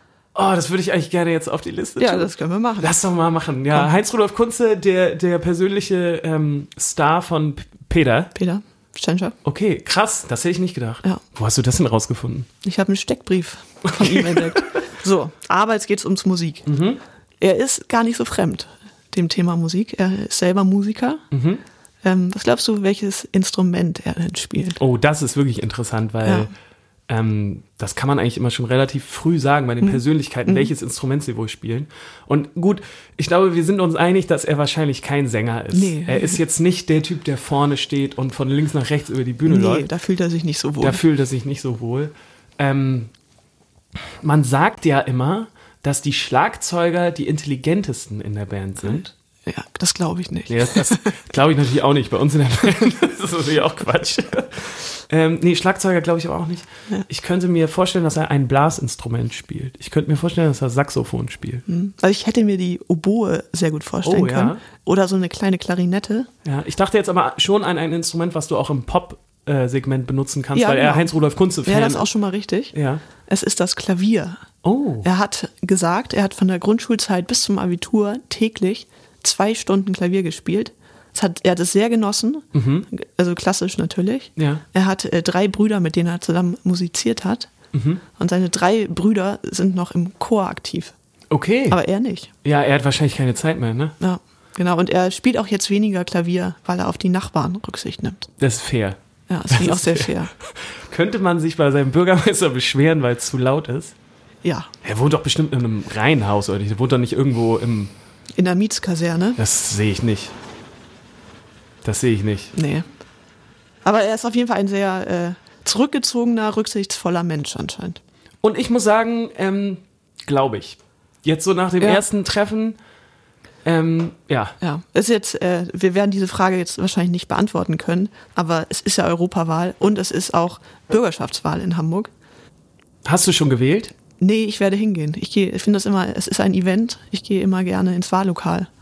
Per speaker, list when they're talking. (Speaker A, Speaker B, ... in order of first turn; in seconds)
Speaker A: 0.3-8.3, 9.4-12.5, 13.9-14.6, 16.6-17.0, 21.3-21.6, 24.8-26.5, 27.1-39.9, 40.8-43.1, 44.2-49.1, 50.5-61.6, 64.0-64.6, 66.4-72.1, 72.7-73.0, 74.6-75.1, 82.5-82.9, 84.4-84.6, 87.7-88.0, 91.3-91.8, 92.4-94.0, 98.4-99.0, 99.5-103.9, 104.8-107.9, 109.4-110.3, 111.8-112.5, 118.4-122.8, 123.6-124.5, 133.0-133.9
Speaker B: 2.0-3.0, 8.3-9.3, 12.6-16.7, 17.4-21.2, 22.0-24.8, 26.2-26.5, 29.8-30.7, 35.7-36.4, 39.5-41.0, 49.5-51.2, 61.7-66.3, 70.5-71.1, 71.6-72.7, 73.2-74.4, 75.0-87.5, 88.2-90.9, 91.7-92.3, 94.0-98.3, 99.3-100.3, 104.4-104.7, 108.4-109.4, 112.5-112.9, 113.8-118.0, 124.6-132.1, 134.2-138.7